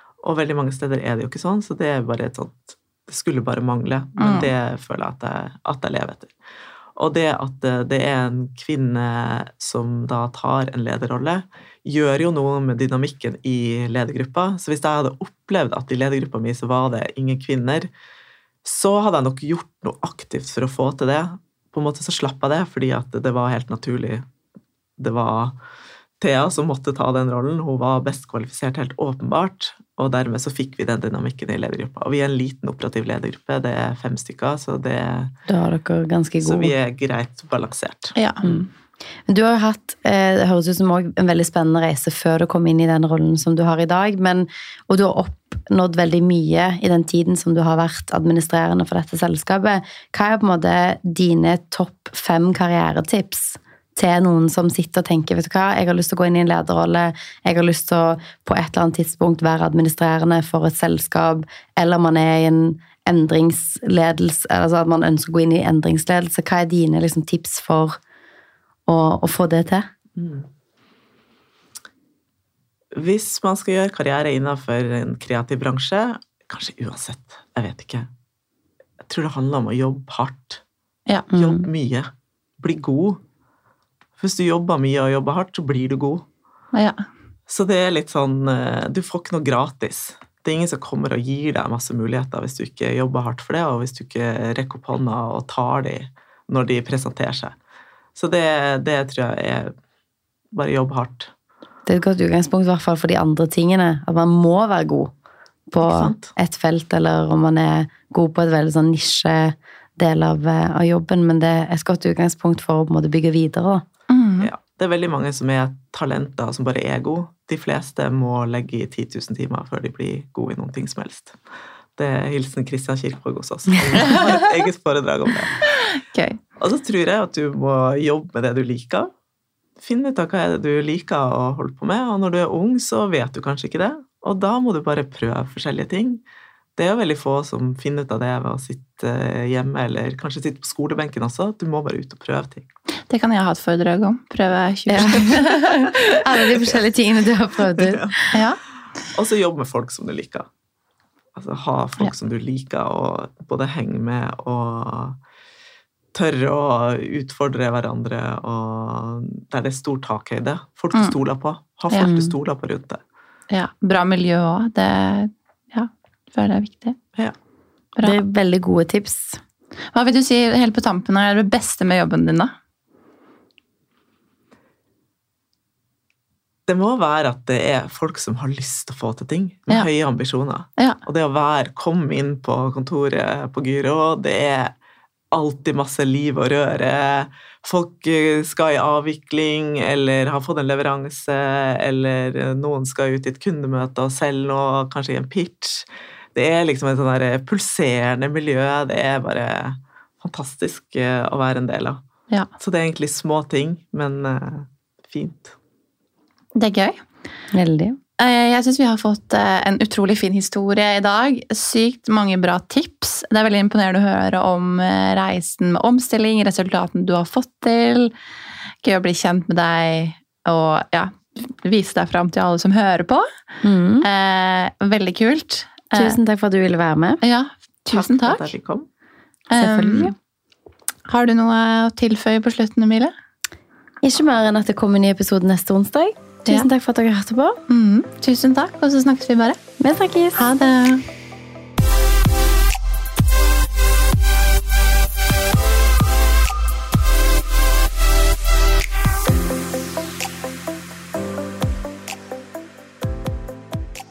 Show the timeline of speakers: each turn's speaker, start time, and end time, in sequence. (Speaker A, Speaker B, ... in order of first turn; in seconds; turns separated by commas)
Speaker A: 0.2-6.3, Speaker B: 4.2-4.5, Speaker A: 7.0-17.9, Speaker A: 18.6-24.2, Speaker A: 25.0-25.6, Speaker A: 26.2-35.3, Speaker C: 35.5-36.7, Speaker A: 36.4-38.6, Speaker B: 38.1-38.4, Speaker C: 39.3-68.0, Speaker C: 68.9-69.9, Speaker A: 70.2-70.5, Speaker A: 72.9-78.1, Speaker A: 79.0-80.6, Speaker A: 81.3-83.2, Speaker C: 81.3-81.7, Speaker A: 84.2-86.3, Speaker B: 86.7-87.0, Speaker A: 87.5-97.5, Speaker A: 98.1-99.7, Speaker A: 100.5-101.3, Speaker C: 101.9-105.1, Speaker C: 105.7-113.8, Speaker A: 105.8-106.3, Speaker B: 114.1-114.5, Speaker A: 114.4-121.4, Speaker A: 122.0-125.6, Speaker B: 124.0-124.3, Speaker B: 126.0-126.4, Speaker A: 126.6-129.1, Speaker A: 129.8-136.2, Speaker A: 136.8-142.7, Speaker B: 143.1-146.2, Speaker C: 144.9-148.3, Speaker A: 147.7-148.4, Speaker B: 148.3-148.6, Speaker A: 149.1-150.5, Speaker A: 151.3-155.2, Speaker A: 156.1-163.0, Speaker C: 162.0-162.3, Speaker B: 163.5-167.0, Speaker C: 168.0-169.4, Speaker B: 169.9-172.5, Speaker A: 176.7-184.7, Speaker A: 185.3-202.0, Speaker A: 202.6-205.6, Speaker B: 206.6-207.0, Speaker C: 207.5-208.0, Speaker B: 208.2-218.1, Speaker B: 218.8-223.3, Speaker C: 223.6-224.1, Speaker B: 224.0-226.2, Speaker C: 225.9-227.2, Speaker B: 227.2-228.5, Speaker A: 227.9-228.9, Speaker B: 229.5-230.1, Speaker C: 229.5-230.1, Speaker B: 231.1-233.1, Speaker C: 234.0-237.6, Speaker B: 237.7-239.6, Speaker C: 239.8-240.4, Speaker B: 240.4-241.0